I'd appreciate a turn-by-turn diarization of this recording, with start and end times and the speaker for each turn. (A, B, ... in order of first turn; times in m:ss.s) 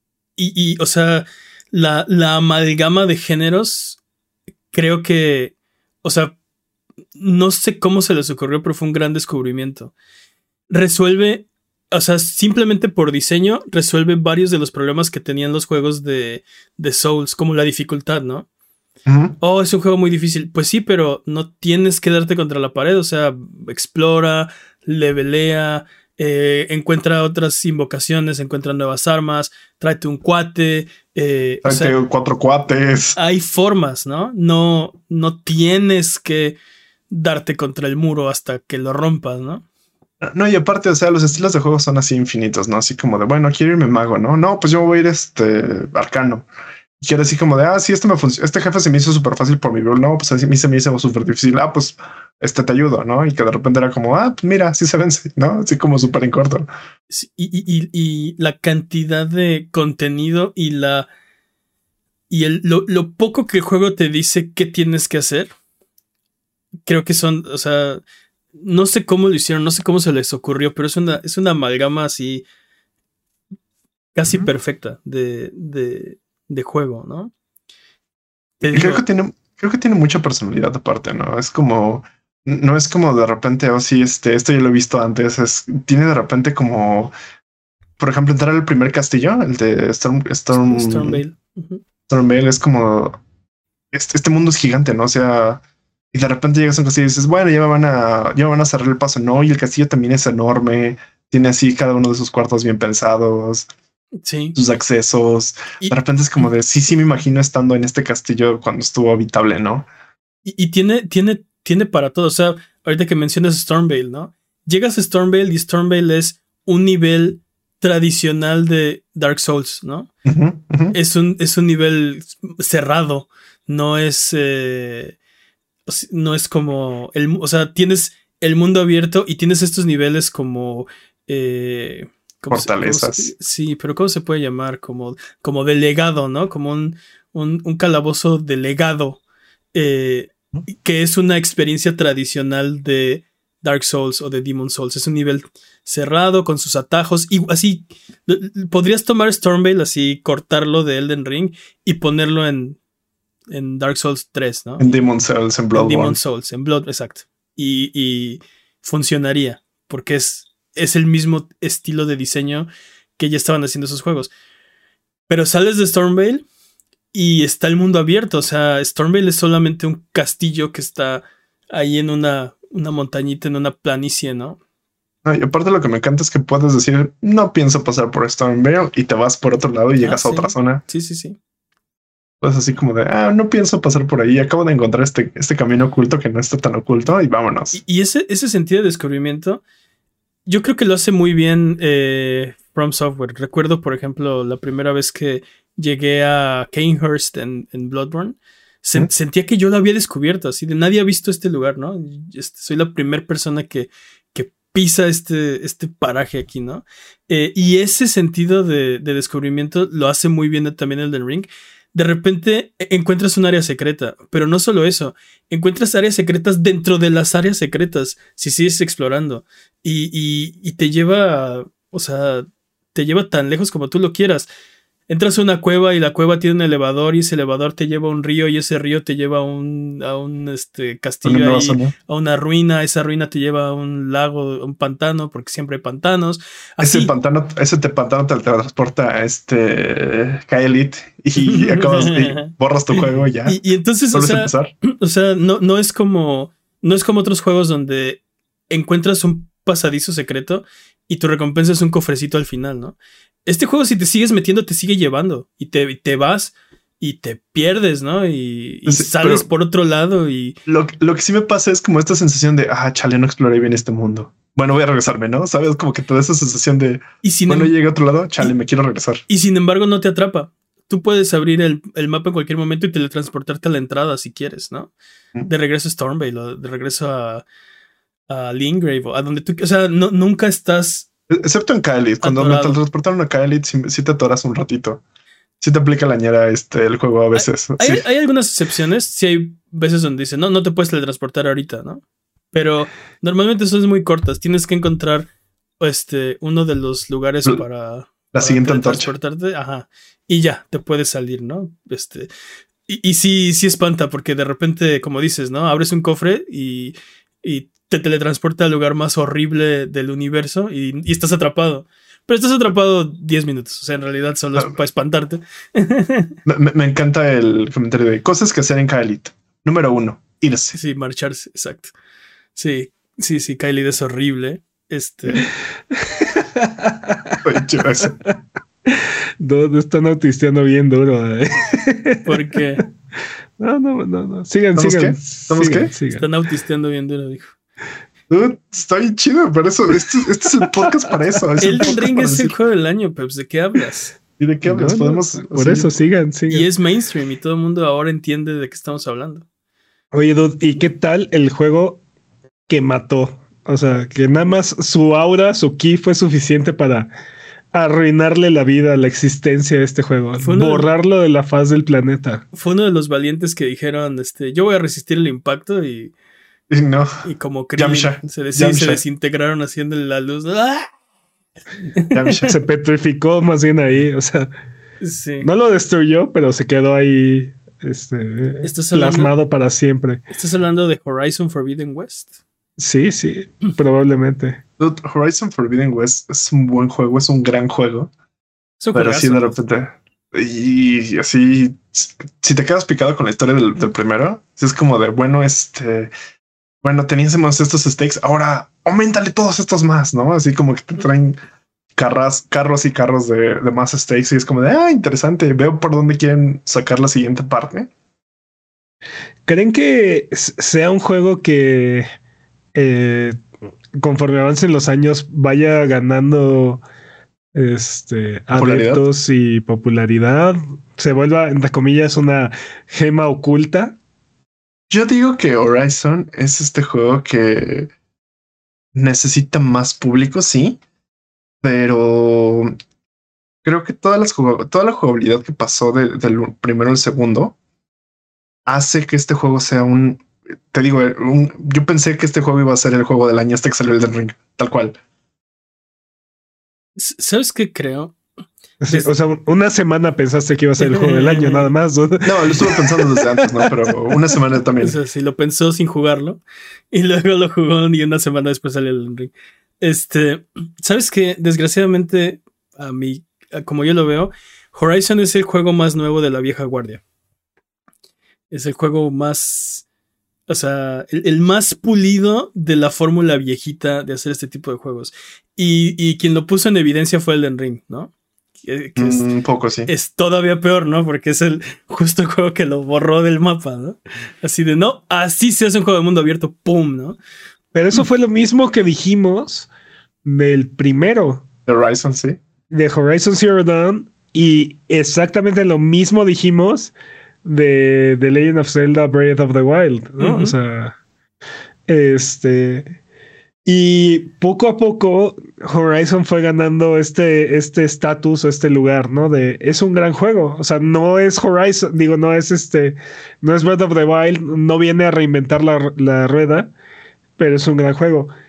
0:00.4-0:04.0 A
0:04.7-0:06.3 A
0:07.2-0:09.9 A
0:10.7-0:18.5 A
0:19.0-0:19.4 B
0:19.4-0:32.0 A
0:31.6-0:33.2 B
0:33.2-0:36.6 A
0:37.1-0:39.6 A
0:40.2-0:46.4 B
0:47.0-0:56.7 B
0:57.1-1:01.1 A
1:02.3-1:05.5 A
1:06.8-1:08.0 A
1:08.5-1:12.4 A
1:14.1-1:17.3 A
1:18.6-1:19.0 A
1:18.7-1:27.1 B
1:28.0-1:31.2 B
1:30.5-1:31.8 A
1:32.1-1:33.2 B
1:33.9-1:43.7 B
1:44.2-1:44.6 A
1:44.6-1:49.9 B
1:50.4-2:00.1 A
2:00.2-2:01.0 B
2:00.9-2:05.2 A
2:05.8-2:19.2 A
2:12.5-2:13.3 B
2:19.7-2:32.8 A
2:33.5-2:34.9 A
2:34.8-2:36.2 B
2:35.7-2:44.3 A
2:45.3-2:46.4 A
2:47.1-2:54.6 A
2:55.2-3:00.8 B
3:00.0-3:01.4 A
3:02.4-3:07.8 B
3:07.7-3:09.6 A
3:10.4-3:44.5 A
3:45.1-3:57.1 A
3:51.2-3:51.9 B
3:56.8-4:03.6 B
4:01.4-4:20.6 A
4:04.1-4:04.7 B
4:18.9-4:19.5 B
4:20.6-4:29.2 B
4:27.2-4:27.8 A
4:29.3-4:34.9 A
4:35.4-4:37.4 A
4:38.3-4:41.1 A
4:41.3-4:45.0 B
4:42.2-4:42.8 A
4:45.6-4:48.0 B
4:47.3-4:55.3 A
4:55.8-5:02.3 A
4:58.3-4:59.1 B
5:02.9-5:16.3 A
5:16.4-5:20.8 B
5:20.7-5:21.9 A
5:22.6-5:25.5 A
5:25.9-5:27.4 C
5:27.4-5:28.2 B
5:28.0-5:32.6 C
5:32.2-5:32.8 A
5:33.6-5:36.2 C
5:34.8-5:35.9 B
5:36.1-5:37.5 A
5:38.3-5:42.6 B
5:41.6-5:44.2 A
5:44.4-5:45.9 B
5:44.6-5:46.7 C
5:46.5-5:49.4 A
5:50.1-5:52.0 C
5:52.7-5:57.1 C
5:57.7-6:02.4 C
6:00.4-6:00.9 A
6:02.5-6:06.1 A
6:06.7-6:07.2 B
6:07.2-6:10.9 A
6:07.8-6:09.0 B
6:11.9-6:12.4 A
6:12.1-6:12.5 B
6:12.4-6:14.5 C
6:15.0-6:15.5 A
6:15.4-6:20.2 C
6:18.6-6:19.3 A
6:20.3-6:22.3 A
6:22.8-6:24.6 C
6:24.8-6:28.1 B
6:28.8-6:29.5 A
6:28.9-6:36.1 B
6:36.8-6:41.4 B
6:42.0-6:47.9 B
6:49.5-6:52.1 C
6:52.7-6:53.4 C
6:54.0-6:56.8 C
6:57.5-7:04.0 C
6:58.5-6:59.0 B
7:04.9-7:07.9 B
7:08.9-7:10.8 B
7:11.6-7:12.7 B
7:13.6-7:17.5 B
7:18.6-7:25.0 B
7:27.0-7:28.2 A
7:28.8-7:33.9 C
7:30.8-7:31.7 A
7:32.2-7:35.0 B
7:34.8-7:47.0 A
7:48.5-7:49.8 A
7:50.5-7:59.3 A
7:59.0-7:59.9 B
7:59.9-8:07.2 A
8:07.7-8:09.7 C
8:10.2-8:11.4 C
8:11.7-8:12.4 B
8:12.7-8:16.9 C
8:17.4-8:20.9 C
8:20.2-8:20.5 A
8:21.9-8:22.9 C
8:23.6-8:36.7 C
8:37.4-8:38.3 C